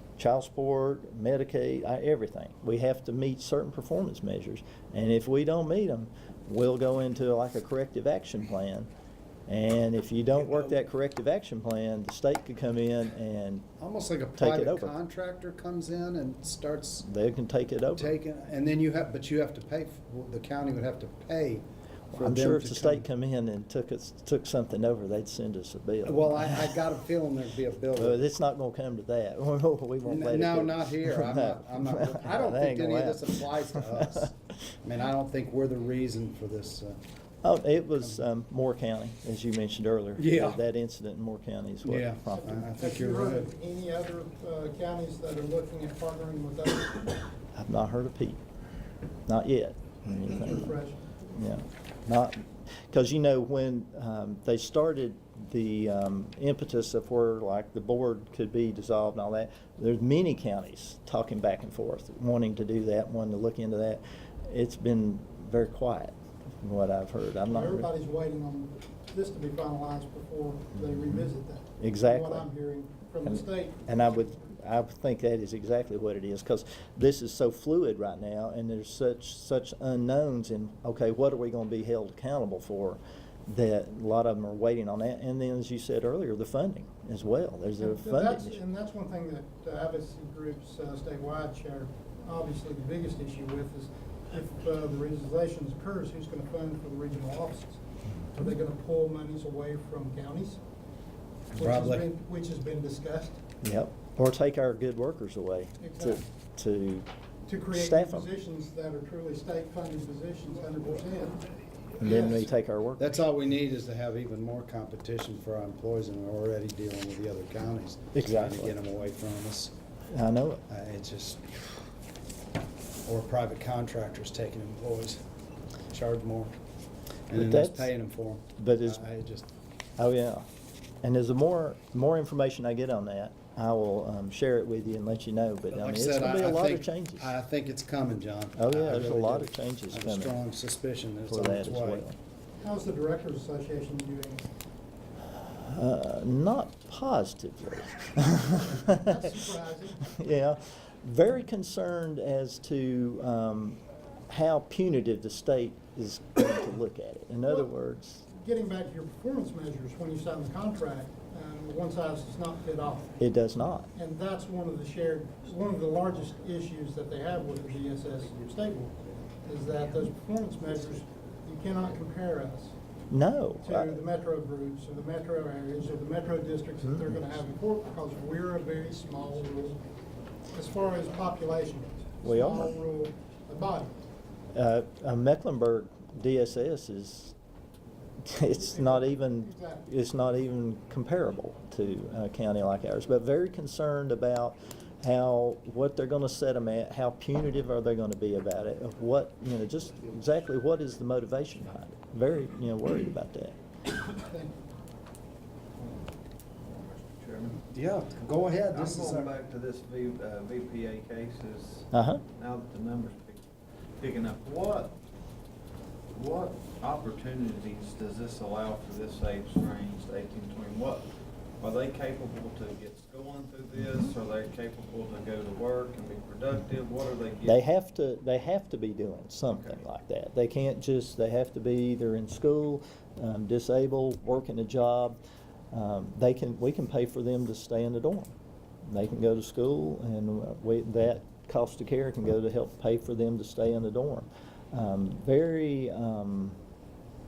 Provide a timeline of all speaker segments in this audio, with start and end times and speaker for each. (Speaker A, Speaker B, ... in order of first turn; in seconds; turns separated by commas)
Speaker A: 0.2-8.9, Speaker A: 9.5-13.7, Speaker B: 13.8-17.1, Speaker A: 14.4-14.9, Speaker A: 17.0-18.2, Speaker B: 18.0-23.1, Speaker A: 22.1-26.8, Speaker B: 26.1-28.2, Speaker A: 28.0-34.5, Speaker B: 30.1-37.0, Speaker A: 37.4-42.7, Speaker B: 40.2-40.6, Speaker B: 41.9-43.5, Speaker C: 42.4-47.1, Speaker A: 47.5-48.4, Speaker A: 49.3-50.8, Speaker C: 50.3-51.0, Speaker A: 51.3-67.9, Speaker C: 67.5-74.4, Speaker A: 71.8-72.5, Speaker A: 73.2-88.6, Speaker C: 87.8-97.8, Speaker C: 98.3-100.6, Speaker B: 101.5-102.0, Speaker C: 101.6-103.4, Speaker A: 103.6-107.1, Speaker C: 105.8-106.2, Speaker C: 107.5-111.5, Speaker A: 107.7-108.3, Speaker C: 112.0-112.5, Speaker A: 112.0-113.2, Speaker B: 113.0-119.7, Speaker A: 118.1-118.8, Speaker A: 120.1-120.6, Speaker B: 120.7-121.7, Speaker B: 123.1-125.2, Speaker B: 125.9-126.5, Speaker B: 127.3-129.5, Speaker A: 127.3-127.9, Speaker A: 128.6-129.0, Speaker A: 130.0-130.5, Speaker A: 131.0-137.3, Speaker B: 135.7-142.1, Speaker A: 138.6-140.4, Speaker A: 141.3-142.2, Speaker C: 142.6-144.5, Speaker A: 145.7-149.4, Speaker C: 148.6-150.2, Speaker A: 150.1-158.3, Speaker C: 157.5-157.7, Speaker C: 158.3-163.2, Speaker A: 163.2-163.9, Speaker C: 163.9-172.8, Speaker A: 173.1-174.0, Speaker C: 173.6-179.8, Speaker A: 176.8-177.2, Speaker C: 180.5-183.9, Speaker A: 182.2-182.7, Speaker A: 184.5-187.3, Speaker A: 188.2-203.6, Speaker C: 188.6-189.9, Speaker C: 204.2-204.6, Speaker D: 206.6-207.7, Speaker B: 207.7-209.3, Speaker D: 208.3-213.4, Speaker A: 211.9-212.2, Speaker D: 214.0-215.0, Speaker D: 216.1-221.1, Speaker D: 221.6-227.6, Speaker A: 227.4-235.2, Speaker D: 229.5-229.8, Speaker A: 235.7-238.3, Speaker A: 238.9-246.6